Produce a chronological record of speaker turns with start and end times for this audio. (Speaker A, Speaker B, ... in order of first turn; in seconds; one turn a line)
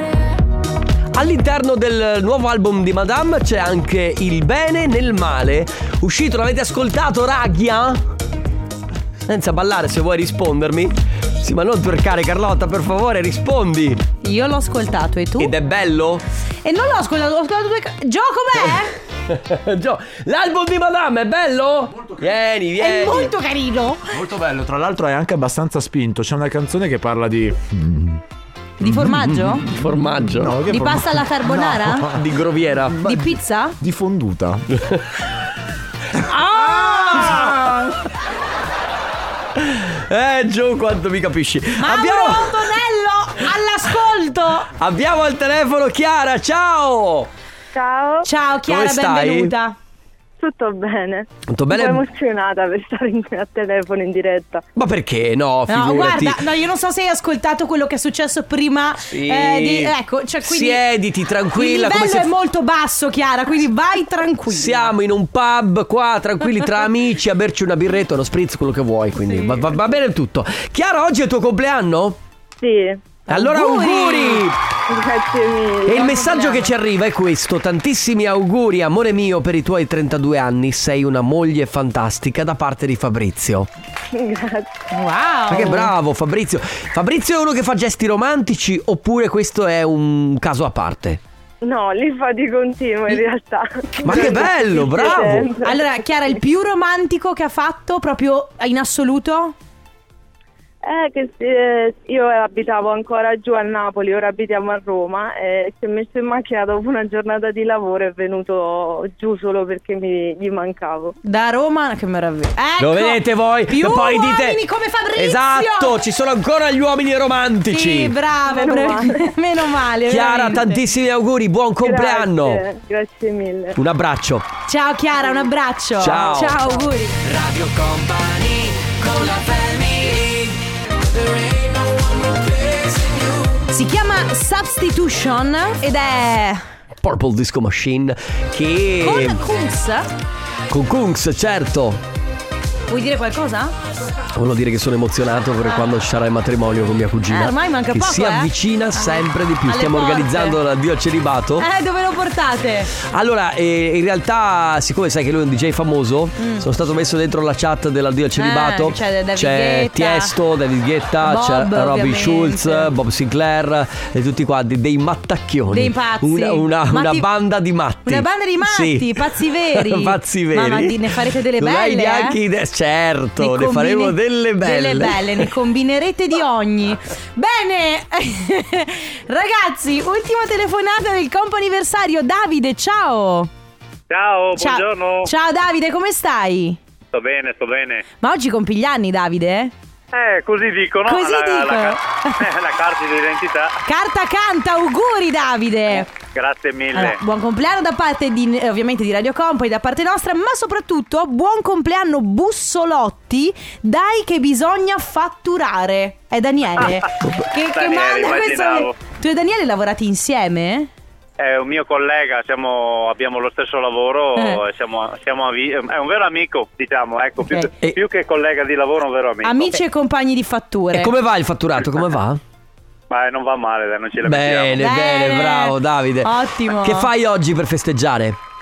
Speaker A: 1.1-8.0
Speaker A: 9.3-14.0
Speaker B: 14.2-15.5
Speaker A: 15.4-16.2
Speaker B: 16.6-18.9
Speaker A: 19.2-23.3
Speaker C: 22.0-22.2
Speaker B: 22.8-24.2
Speaker C: 24.1-28.2
Speaker B: 28.8-29.6
Speaker C: 28.8-29.6
Speaker A: 29.5-30.6
Speaker C: 30.2-32.2
Speaker B: 30.7-32.1
Speaker A: 32.1-33.1
Speaker C: 32.9-33.3
Speaker B: 33.0-33.8
Speaker C: 33.8-34.8
Speaker A: 36.2-37.9
Speaker B: 36.5-37.8
Speaker A: 39.5-42.7
Speaker B: 41.8-44.7
Speaker A: 44.8-47.3
Speaker D: 47.7-48.3
Speaker B: 48.2-49.8
Speaker A: 48.6-49.5
Speaker D: 50.4-54.6
Speaker A: 51.5-52.0
Speaker A: 54.7-56.4
Speaker B: 55.7-60.8
Speaker A: 59.1-62.3
Speaker B: 61.5-64.9
Speaker A: 64.5-72.2
Speaker B: 69.2-69.6
Speaker D: 72.6-73.1
Speaker B: 73.3-74.5
Speaker A: 73.3-74.6
Speaker D: 74.9-76.2
Speaker A: 75.8-83.7
Speaker B: 76.0-76.7
Speaker D: 84.1-84.7
Speaker B: 84.9-85.9
Speaker A: 85.5-91.2
Speaker D: 91.6-95.8
Speaker A: 94.0-95.5
Speaker B: 94.0-94.5
Speaker B: 95.1-99.5
Speaker D: 100.8-111.1
Speaker B: 111.2-115.9
Speaker A: 112.8-114.6
Speaker A: 115.1-118.1
Speaker B: 117.7-120.8
Speaker D: 118.5-119.2
Speaker A: 120.1-122.6
Speaker D: 121.8-123.8
Speaker A: 123.8-124.5
Speaker B: 124.7-127.2
Speaker A: 126.0-126.7
Speaker A: 127.2-130.7
Speaker A: 131.2-133.5
Speaker B: 133.7-136.6
Speaker A: 137.0-139.4
Speaker B: 139.0-140.1
Speaker A: 140.7-142.0
Speaker B: 142.9-143.7
Speaker A: 144.3-151.7
Speaker B: 147.3-150.6
Speaker B: 151.6-152.9
Speaker A: 153.0-175.5
Speaker B: 156.4-156.7
Speaker B: 158.4-160.3
Speaker B: 161.2-162.9
Speaker B: 165.7-167.3
Speaker B: 168.0-172.4
Speaker B: 173.4-183.5
Speaker E: 184.1-185.3
Speaker B: 184.6-186.8
Speaker E: 187.1-188.0
Speaker B: 188.2-189.7
Speaker E: 190.1-193.8
Speaker B: 191.1-192.4
Speaker B: 193.8-196.1
Speaker E: 196.0-197.2
Speaker B: 196.9-210.9
Speaker E: 207.7-208.9
Speaker E: 211.4-219.8
Speaker B: 214.4-214.6
Speaker B: 219.4-221.1
Speaker A: 220.9-222.4
Speaker E: 223.1-224.8
Speaker A: 224.2-228.4
Speaker B: 224.8-227.1